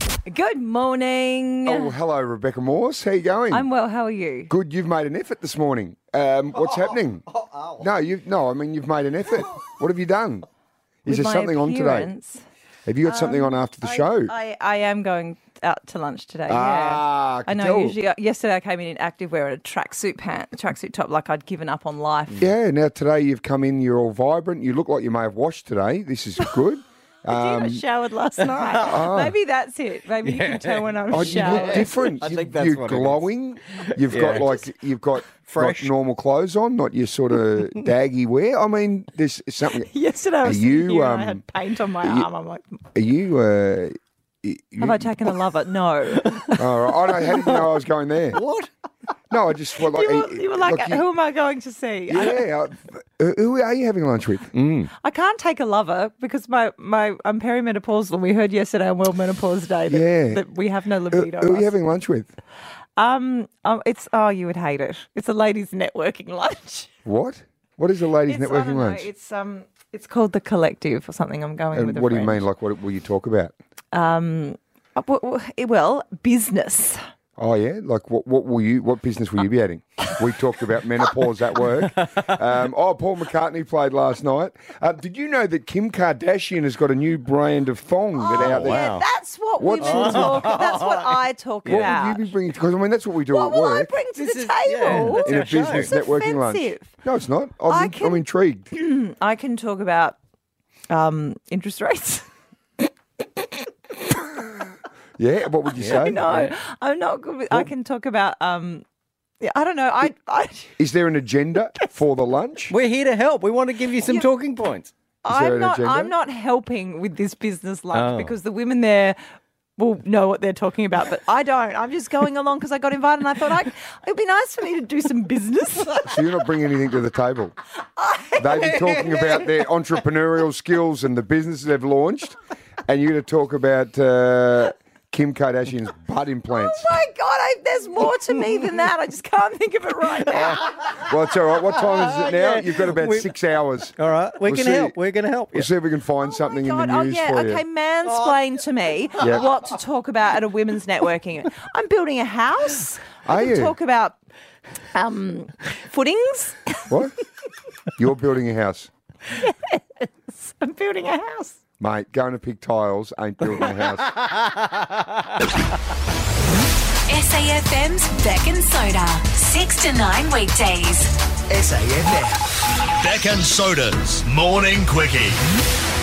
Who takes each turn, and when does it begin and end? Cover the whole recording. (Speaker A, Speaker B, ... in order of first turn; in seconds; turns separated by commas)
Speaker A: 0.2-1.9, Speaker B: 1.6-3.7, Speaker A: 3.5-4.5, Speaker B: 4.5-7.2, Speaker C: 7.4-7.8, Speaker B: 7.8-10.5, Speaker B: 11.0-12.1, Speaker A: 11.1-12.4, Speaker B: 12.8-14.3, Speaker A: 13.0-22.5, Speaker B: 16.5-18.0, Speaker B: 22.4-27.8, Speaker A: 27.3-32.0, Speaker C: 28.4-28.8, Speaker B: 28.8-29.3, Speaker C: 30.2-33.3, Speaker B: 31.1-39.9, Speaker C: 34.0-34.6, Speaker C: 35.4-35.9, Speaker A: 39.9-42.8, Speaker B: 40.4-41.4, Speaker B: 42.0-42.3, Speaker B: 42.9-45.3, Speaker A: 44.8-46.6, Speaker B: 46.5-48.4, Speaker C: 47.3-47.7, Speaker C: 48.3-48.7, Speaker B: 49.3-51.0, Speaker A: 49.8-52.4, Speaker B: 52.1-54.9, Speaker A: 55.0-61.7, Speaker B: 59.9-60.4, Speaker B: 61.1-62.3, Speaker A: 63.0-66.9, Speaker B: 67.0-69.1, Speaker A: 68.3-72.4, Speaker B: 71.7-73.5, Speaker A: 73.9-77.0, Speaker B: 77.4-88.9, Speaker C: 82.0-82.3, Speaker A: 88.1-92.2, Speaker C: 88.3-89.0, Speaker B: 89.6-90.5, Speaker C: 89.8-91.9, Speaker B: 91.7-93.9, Speaker A: 93.3-96.9, Speaker C: 94.1-95.9, Speaker B: 94.9-98.7, Speaker A: 97.7-100.2, Speaker A: 100.9-102.3, Speaker B: 104.1-106.4, Speaker C: 105.8-106.5, Speaker A: 105.8-108.8, Speaker A: 109.4-110.7, Speaker B: 110.8-112.7, Speaker C: 112.7-114.9, Speaker A: 114.0-114.3, Speaker A: 115.2-119.2, Speaker B: 115.2-116.1, Speaker C: 117.9-118.3, Speaker A: 119.8-126.0, Speaker B: 126.0-127.5, Speaker A: 128.0-129.1, Speaker B: 128.4-136.9, Speaker A: 136.5-140.7, Speaker B: 140.3-144.9, Speaker C: 142.1-143.3, Speaker C: 143.9-145.7, Speaker B: 145.5-147.6, Speaker A: 146.2-154.2, Speaker B: 149.2-149.4, Speaker B: 153.2-153.7, Speaker A: 154.9-156.9, Speaker B: 156.9-157.1, Speaker B: 157.9-158.9, Speaker A: 159.4-161.6, Speaker B: 161.8-164.2, Speaker D: 167.1-171.1, Speaker E: 171.5-175.4